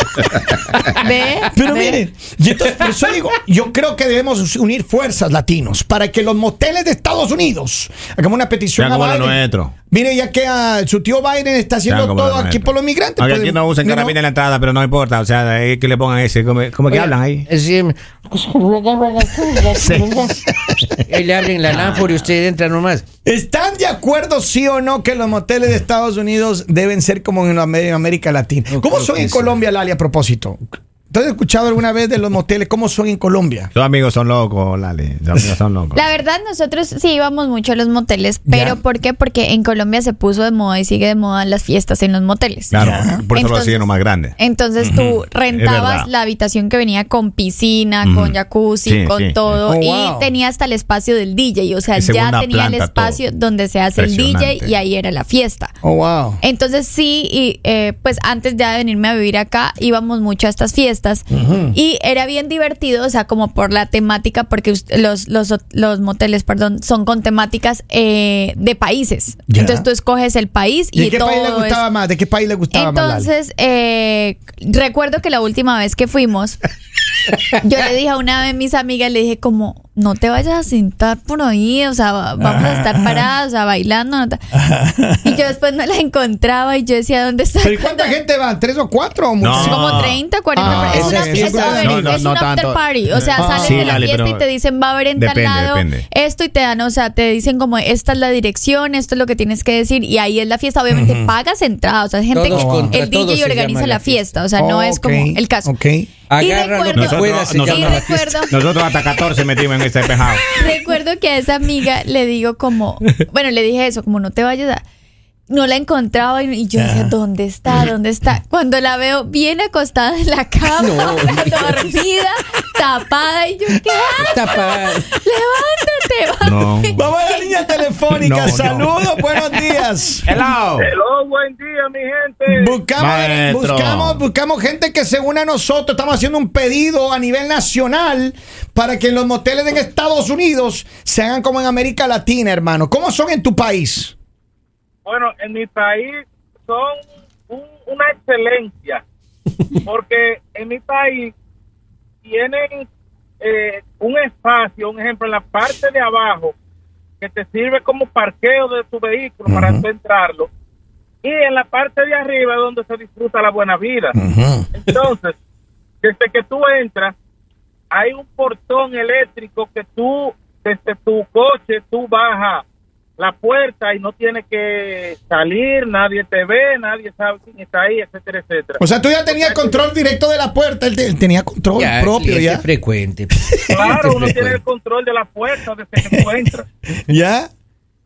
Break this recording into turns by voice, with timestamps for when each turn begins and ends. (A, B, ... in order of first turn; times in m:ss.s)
0:01.0-0:02.0 A
0:01.5-0:09.4 B
0:08.8-0:09.7 C
0:09.9-0:14.2 B
0:11.9-0:17.5 C
0:16.9-0:20.3 D
0:19.8-0:20.3 C
0:20.5-0:20.9 B
0:21.1-0:23.0 D
0:21.7-0:22.1 C
0:23.2-0:33.7 B
0:28.7-0:29.5 D
0:33.7-0:36.0 C
0:35.9-0:42.8 A
0:38.4-0:38.8 B
0:42.7-0:46.1 C
0:42.7-0:43.2 B
0:43.3-0:55.7 A
0:48.0-0:49.6 C
0:49.6-0:50.3 B
0:51.9-0:53.2 C
0:54.0-0:54.7 C
0:55.8-0:56.4 B
0:56.4-1:11.8 A
1:01.3-1:01.8 B
1:09.5-1:09.8 B
1:10.9-1:13.3 B
1:12.7-1:16.6 A
1:17.6-1:24.4 A
1:22.4-1:23.2 B
1:24.5-1:25.4 B
1:25.2-1:28.1 A
1:27.6-1:32.3 B
1:29.4-1:34.4 C
1:29.5-1:45.7 A
1:33.2-1:34.0 B
1:35.2-1:36.0 C
1:40.9-1:41.3 B
1:42.3-1:44.2 D
1:42.5-1:43.0 B
1:44.6-1:46.1 B
1:46.3-1:48.5 D
1:46.4-1:48.5 A
1:46.9-1:50.4 C
1:50.5-1:54.8 A
1:55.5-2:07.8 A
1:56.8-1:57.1 B
2:00.8-2:01.9 D
2:04.2-2:05.1 D
2:06.4-2:07.0 C
2:06.9-2:10.3 B
2:08.1-2:08.9 C
2:10.2-2:10.9 C
2:10.8-2:12.8 E
2:12.5-2:24.1 B
2:13.0-2:14.2 C
2:25.0-2:29.0 E
2:29.8-2:31.3 E
2:32.2-2:32.9 E
2:33.4-2:36.5 E
2:37.2-2:40.5 E
2:39.5-2:39.8 B
2:41.2-2:44.2 E
2:44.2-2:44.7 B
2:44.7-2:45.4 E
2:46.0-2:47.1 E
2:47.9-2:52.6 E
2:53.2-2:59.8 E
2:58.8-3:02.6 B
3:01.7-3:04.6 D
3:03.5-3:04.1 B
3:03.7-3:06.6 E
3:06.0-3:06.4 B
3:06.9-3:07.5 B